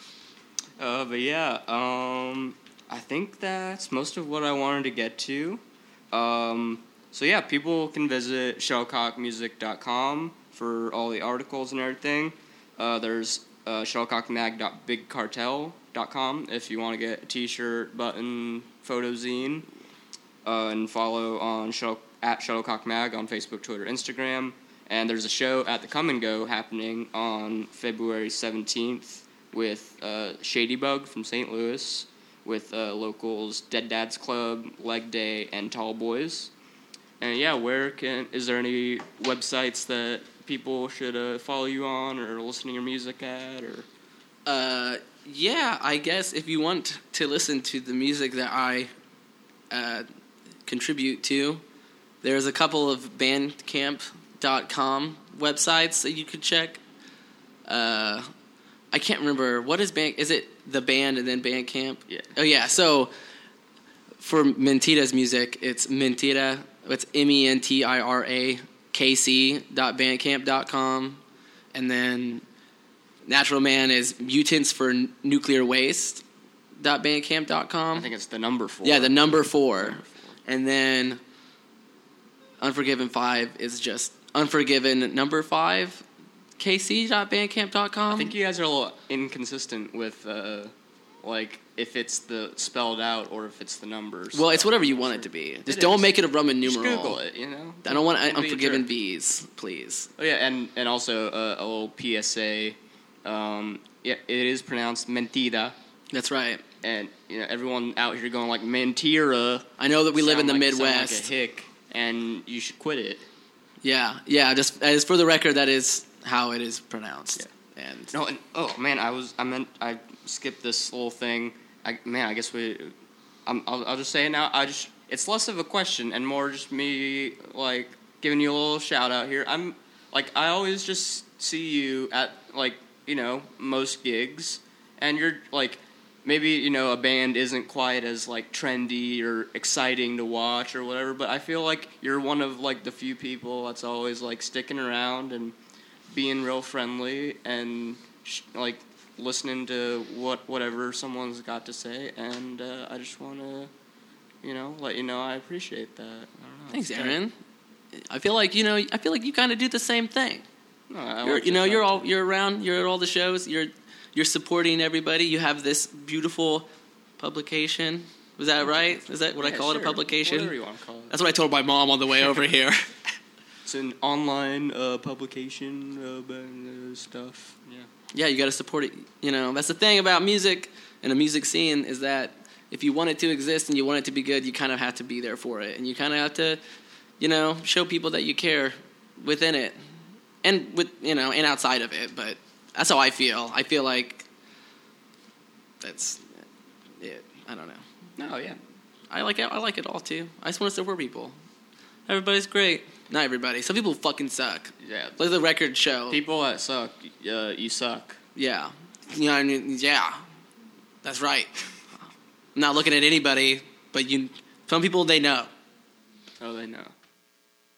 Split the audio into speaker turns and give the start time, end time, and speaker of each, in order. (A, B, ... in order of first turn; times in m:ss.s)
0:00.8-0:19.6 A
0:20.4-0:36.5 A
0:37.2-0:43.9 A
0:44.4-0:48.9 B
0:49.7-0:50.0 B
0:50.6-0:51.6 B
0:52.2-0:56.8 B
0:57.7-0:58.3 B
0:58.9-1:03.1 B
1:02.1-1:02.4 A
1:04.2-1:11.2 B
1:11.7-1:12.4 B
1:13.2-1:16.2 B
1:16.8-1:18.1 B
1:17.9-1:20.4 A
1:18.8-1:21.2 B
1:22.6-1:26.0 B
1:26.6-1:28.3 B
1:28.1-1:38.9 A
1:34.3-1:37.2 B
1:37.8-1:40.1 B
1:40.2-1:45.8 A
1:46.1-1:46.6 B
1:46.8-1:53.3 A
1:49.8-1:51.3 B
1:53.8-1:58.1 B
1:58.1-2:02.9 A
2:03.4-2:25.5 A
2:26.1-2:33.7 A
2:34.4-2:37.2 A
2:36.7-2:37.3 B
2:37.9-2:40.4 B
2:40.9-2:42.1 A
2:41.2-2:46.6 B
2:47.2-2:50.5 B
2:49.3-2:51.2 A
2:51.1-2:53.2 B
2:53.6-2:57.9 A
2:58.1-3:06.6 B
3:07.2-3:09.8 B
3:10.4-3:14.3 B
3:15.8-3:16.5 B
3:17.0-3:17.8 B
3:18.2-3:18.6 A
3:19.1-3:21.4 B
3:22.1-3:26.2 B
3:24.8-3:25.2 A
3:26.1-3:28.2 A
3:28.4-3:30.2 B
3:31.0-3:31.5 B
3:32.5-3:35.5 B
3:36.4-3:36.9 A